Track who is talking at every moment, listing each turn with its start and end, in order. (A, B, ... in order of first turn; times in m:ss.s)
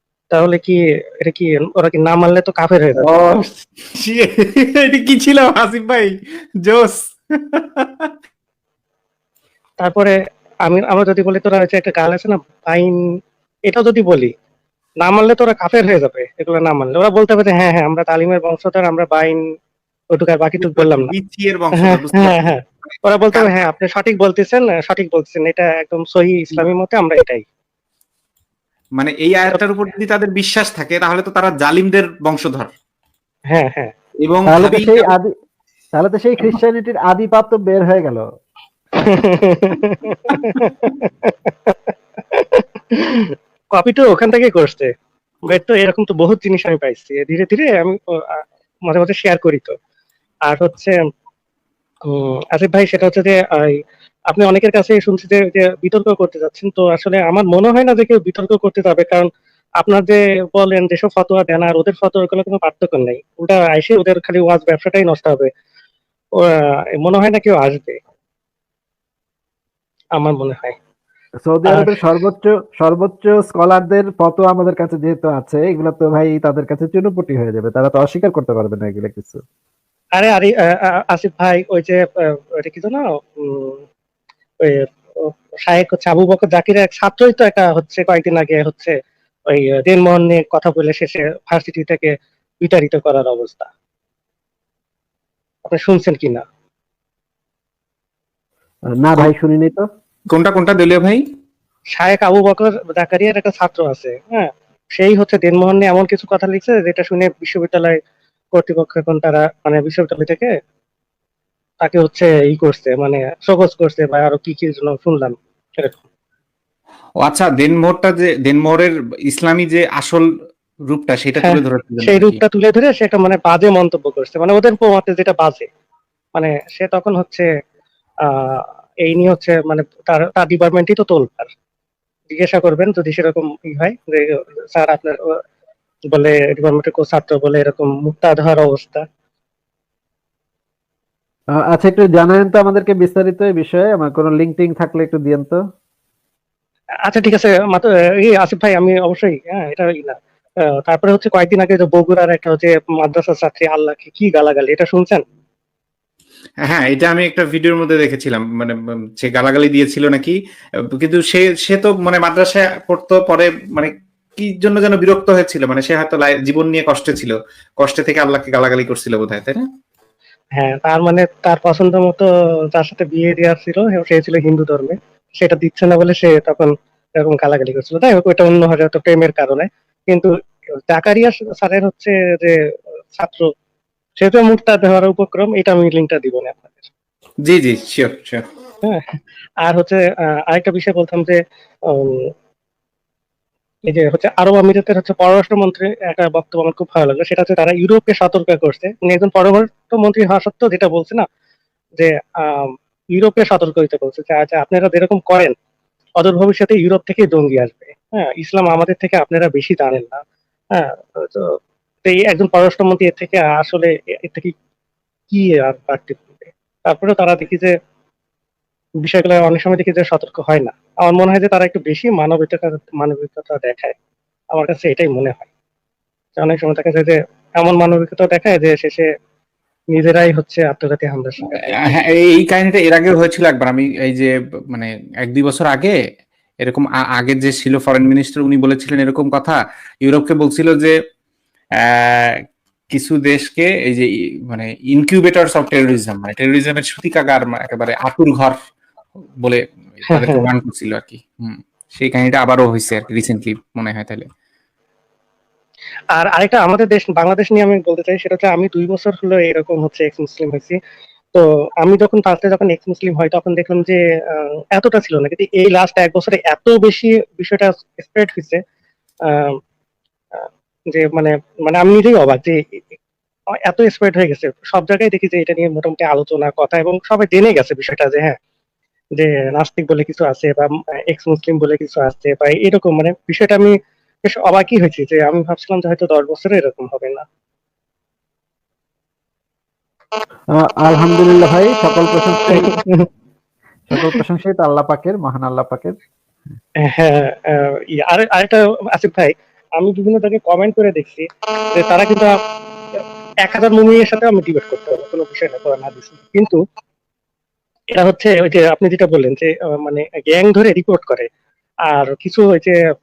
0:00.3-0:03.2 A
0:03.0-0:06.1 B
0:06.6-0:08.1 B
0:09.8-0:13.0 A
0:13.7-0:14.3 A
0:15.0-0:19.4 A
0:20.1-0:21.1 A
0:20.6-0:23.5 B
0:21.8-0:27.4 A
0:29.0-0:32.7 B
0:33.5-0:33.9 A
0:34.2-0:34.9 B
0:34.5-0:35.3 C
0:35.9-0:38.2 C
0:39.1-0:44.9 A
0:45.5-0:49.7 A
0:50.5-0:51.0 A
0:52.1-0:53.8 A
0:54.3-0:59.3 A
0:59.8-1:05.5 A
1:06.4-1:08.0 A
1:10.2-1:10.8 A
1:11.4-1:19.4 C
1:11.7-1:12.0 A
1:20.2-1:23.8 A
1:24.6-1:28.9 A
1:29.5-1:33.7 A
1:35.6-1:36.4 A
1:39.0-1:39.8 C
1:40.3-1:41.2 B
1:41.9-1:48.0 A
1:48.5-1:50.5 A
1:51.8-1:56.0 A
1:57.2-2:00.2 B
2:00.9-2:02.4 B
2:01.4-2:05.6 A
2:06.4-2:07.4 A
2:08.3-2:11.5 A
2:12.3-2:15.2 A
2:16.1-2:19.0 A
2:21.6-2:25.6 C
2:27.0-2:35.2 A
2:36.7-2:40.3 B
2:41.0-2:49.6 B
2:50.6-3:00.3 A
3:00.9-3:02.6 A
3:03.1-3:03.5 A
3:04.2-3:06.9 A
3:07.4-3:08.4 B
3:08.8-3:12.3 A
3:13.8-3:21.2 A
3:22.0-3:25.5 A
3:26.2-3:30.2 A
3:30.7-3:31.5 A
3:32.0-3:34.5 A
3:35.3-3:37.7 A
3:39.0-3:43.9 A
3:44.5-3:45.5 A
3:46.4-3:49.0 A
3:49.9-3:51.9 A
3:51.7-3:55.9 B
3:56.6-4:00.9 B
4:01.8-4:02.4 B
4:02.9-4:08.5 B
4:09.4-4:14.2 B
4:10.1-4:10.4 A
4:16.1-4:20.8 A
4:21.3-4:28.6 A
4:29.3-4:29.6 A
4:30.4-4:32.8 A
4:33.6-4:38.3 A
4:39.2-4:43.7 A
4:44.2-4:47.2 A
4:50.6-4:52.7 C
4:52.5-4:53.0 A
4:53.9-4:55.9 C
4:56.8-5:02.3 A
5:03.0-5:06.6 A
5:07.9-5:11.2 A
5:11.9-5:12.8 A